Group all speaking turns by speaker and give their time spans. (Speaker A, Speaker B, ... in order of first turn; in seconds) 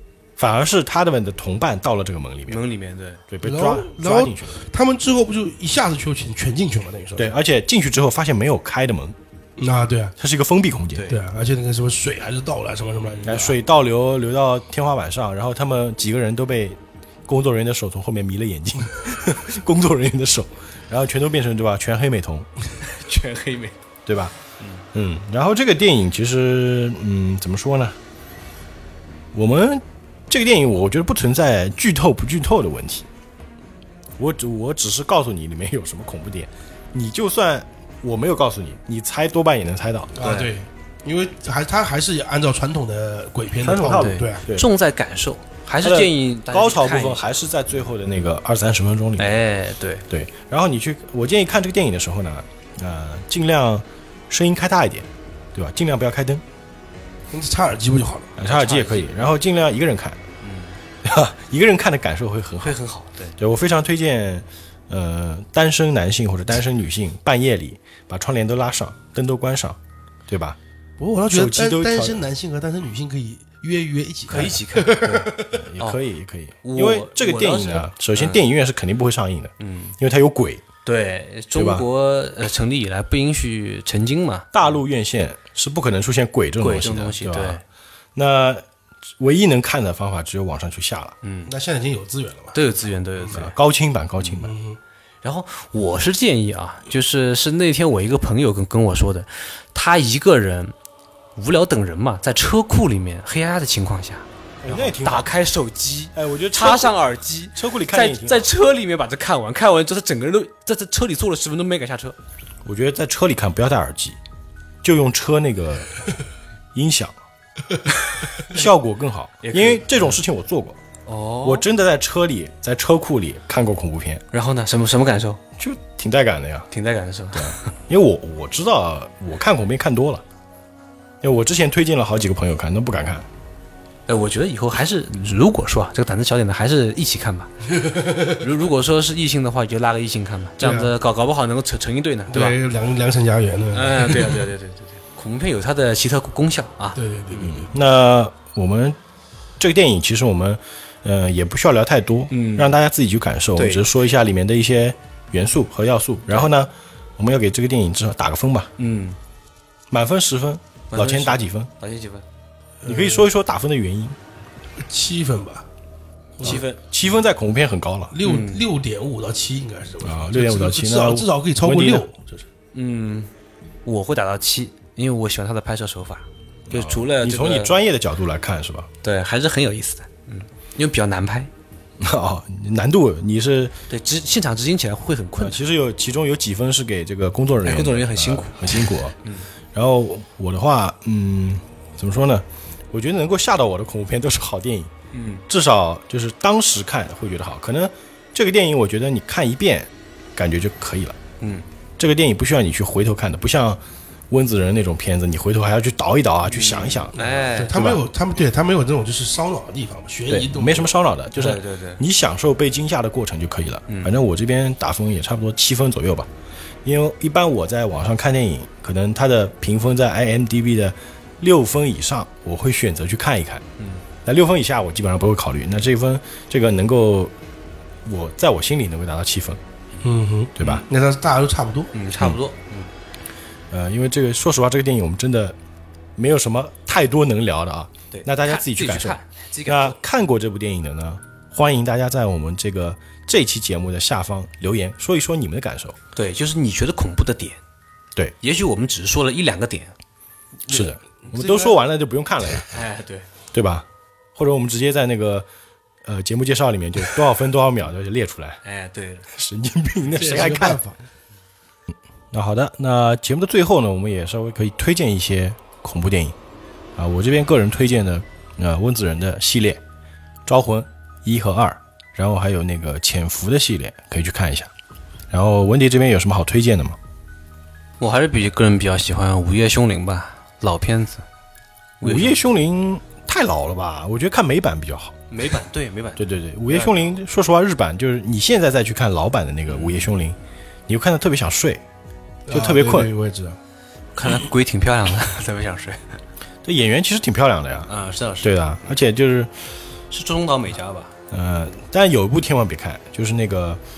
Speaker A: 0.4-2.6, 3.3-4.6, 7.2-9.2, 10.2-11.1, 13.2-22.5, 24.1-24.3, 24.9-28.0, 29.3-33.1, 34.2-40.1, 43.6-44.7, 45.8-49.4, 50.1-56.4, 58.4-60.2, 61.0-62.8, 63.4-70.6, 71.3-72.2, 75.4-80.6, 81.5-81.8, 84.5-87.6, 88.1-88.6, 89.2-91.2, 93.3-94.5, 104.6-105.3, 106.1-107.0, 107.5-108.5, 112.6-114.2, 114.8-116.0, 116.7-117.1, 118.4-120.8, 121.4-124.2, 125.6-126.7, 127.3-130.2, 131.2-133.3, 147.4-149.0, 149.6-158.7, 159.9-161.7, 162.8-164.2, 166.4-168.2, 170.0-172.0, 176.7-178.9, 182.0-183.8, 185.4-189.2, 189.7-194.9, 195.5-201.2, 202.0-207.1, 207.7-208.0, 210.3-216.3, 216.8-223.6, 224.2-227.3, 228.0-229.6, 230.6-230.8, 232.1-232.4, 233.7-235.6, 236.2-246.0, 250.7-252.8, 253.5-255.5, 256.0-258.6, 259.3-260.8, 261.9-266.4, 266.9-269.8, 270.4-274.7, 275.3-277.0, 282.0-285.2, 286.2-290.4, 290.9-291.8, 292.5-293.1, 296.6-297.9, 298.4-299.5, 301.3-303.8
Speaker B: 2.5-3.2, 10.9-11.2, 22.8-23.8, 40.2-40.5, 43.9-47.2, 49.2-50.0, 58.4-59.1, 60.4-60.8, 62.6-63.4, 74.3-76.0, 76.6-78.4, 79.6-80.0, 80.8-84.7, 86.6-87.6, 91.2-91.5, 92.5-93.5, 95.2-100.7, 101.3-112.2, 119.4-120.2, 121.1-121.7, 124.3-125.4, 126.7-127.7, 134.1-137.5, 138.2-142.6, 143.7-147.5, 152.3-152.8, 153.6-153.8, 158.8-159.2, 160.9-162.2, 166.4-166.8, 168.2-168.7, 172.7-173.3, 173.8-177.8, 179.0-181.5, 183.9-185.6, 187.6-189.5, 195.1-195.4, 201.4-201.7, 206.5-207.8, 211.3-212.0, 213.9-214.1, 223.8-224.0, 231.9-232.9, 238.1-240.0, 246.1-247.6, 248.4-249.9, 252.7-253.3, 258.6-259.3, 278.0-281.2, 282.0-282.4, 285.3-287.1, 289.7-290.1, 294.1-296.0, 297.9-298.9, 300.1-301.1
Speaker C: 3.4-7.3, 9.6-10.1, 11.1-13.6, 40.1-44.4, 57.3-58.4, 71.0-75.6, 91.5-92.6, 94.4-94.8, 137.8-138.3, 140.6-140.9, 142.3-144.4, 146.9-147.7, 162.8-163.3, 164.8-165.7, 168.1-172.4, 207.1-210.9, 230.0-231.9, 250.7-251.8, 260.1-261.0, 292.4-293.6